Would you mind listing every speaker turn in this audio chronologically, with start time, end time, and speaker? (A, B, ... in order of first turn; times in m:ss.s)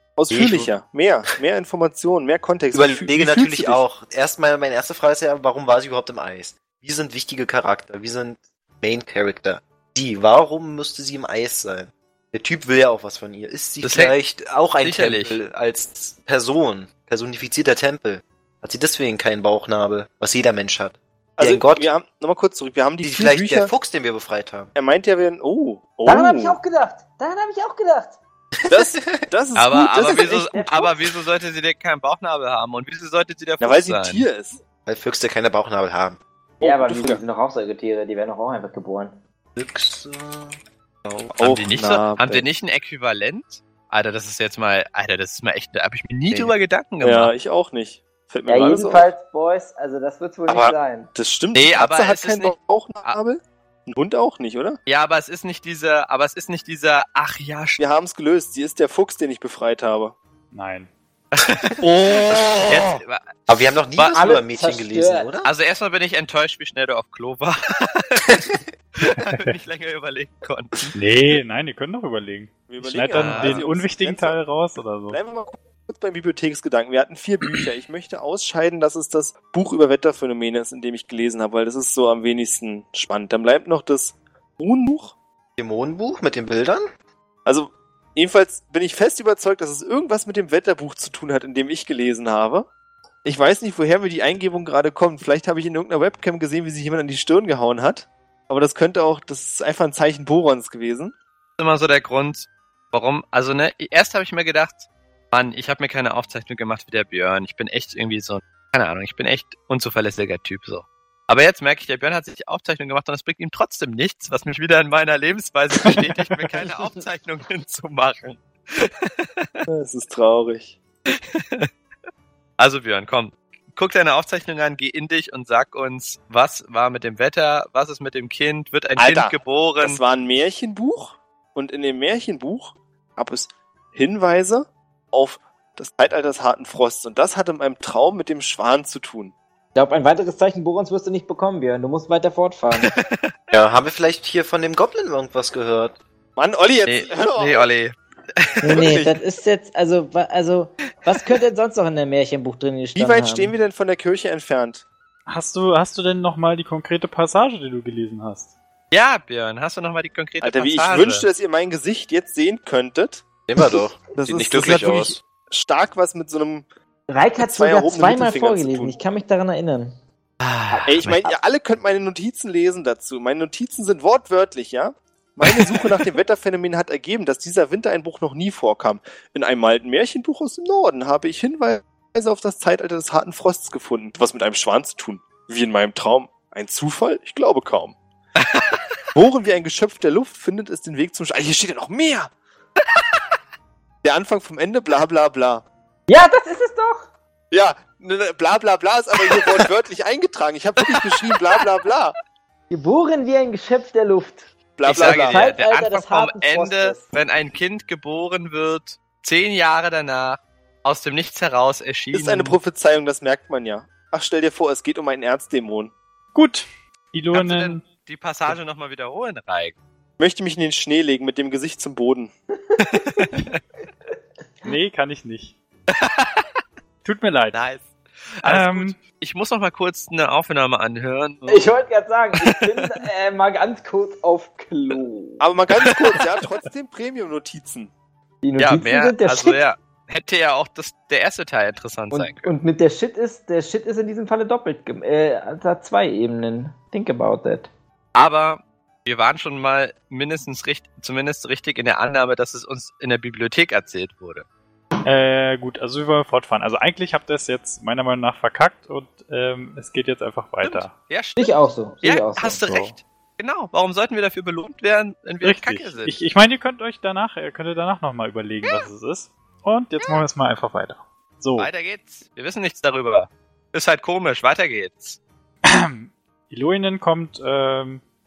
0:00.2-0:03.8 A
0:00.3-0:00.7 B
0:02.7-0:21.9 B
0:13.8-0:14.2 C
0:14.8-0:15.4 C
0:21.4-0:23.7 A
0:23.0-0:24.7 B
0:24.8-0:26.6 A
0:26.1-0:28.2 D
0:28.6-0:29.3 B
0:28.7-0:30.5 A
0:29.6-0:34.2 C
0:30.3-0:30.9 D
0:33.6-0:34.6 A
0:34.9-0:36.2 B
0:36.6-0:37.2 A
0:36.6-0:39.2 D
0:39.6-0:41.3 B
0:41.3-0:42.5 A
0:41.4-0:47.3 C
0:47.0-0:49.1 A
0:48.5-0:51.1 D
0:50.5-0:54.8 A
0:51.6-0:53.2 C
0:54.9-0:57.8 C
0:57.8-1:00.2 A
1:00.5-1:00.9 E
1:01.3-1:03.3 C
1:03.5-1:05.5 B
1:04.0-1:04.2 C
1:04.1-1:05.3 D
1:05.4-1:10.9 C
1:09.2-1:09.6 E
1:10.9-1:15.2 E
1:12.7-1:14.4 A
1:13.1-1:13.7 C
1:15.1-1:25.2 A
1:25.6-1:26.9 B
1:27.5-1:32.7 A
1:33.2-1:41.1 A
1:41.6-1:59.6 C
1:55.8-1:56.5 E
1:59.7-2:00.8 A
2:01.1-2:01.7 C
2:02.6-2:10.0 C
2:09.0-2:19.3 A
2:19.8-2:22.9 D
2:22.8-2:23.2 C
2:23.5-2:26.0 B
2:26.4-2:27.7 A
2:26.8-2:29.0 C
2:28.6-2:33.5 D
2:28.7-2:29.2 A
2:33.0-2:34.8 A
2:35.3-2:38.5 E
2:38.9-2:41.3 C
2:40.4-2:43.2 A
2:43.5-2:45.2 B
2:44.2-2:46.7 A
2:47.1-2:50.0 D
2:47.4-2:49.0 A
2:50.4-2:51.2 C
2:50.7-2:51.4 D
2:50.9-3:08.0 A
2:55.4-2:56.0 C
3:08.4-3:09.0 C
3:09.2-3:12.3 A
3:13.0-3:13.2 C
3:14.0-3:15.6 A
3:16.1-3:17.1 D
3:17.5-3:22.2 A
3:22.7-3:24.5 D
3:24.8-3:25.5 A
3:24.8-3:32.6 C
3:25.1-3:27.1 D
3:32.1-3:35.9 A
3:36.3-3:37.9 E
3:37.3-3:39.8 C
3:40.2-3:42.3 A
3:42.7-3:43.3 D
3:42.8-3:43.6 C
3:44.6-3:45.6 E
3:45.9-3:46.5 C
3:47.0-3:47.6 E
3:47.5-3:51.8 C
3:48.4-3:49.0 E
3:51.5-3:55.4 D
3:52.4-3:52.9 C
3:55.4-3:57.9 A
3:55.8-3:56.2 C
3:58.4-3:59.6 D
3:58.6-4:02.5 C
4:02.1-4:07.7 D
4:08.2-4:14.5 C
4:15.0-4:20.9 E
4:20.6-4:26.2 C
4:21.4-4:22.6 D
4:22.6-4:23.0 E
4:25.4-4:31.7 E
4:31.6-4:35.2 C
4:35.7-4:38.0 E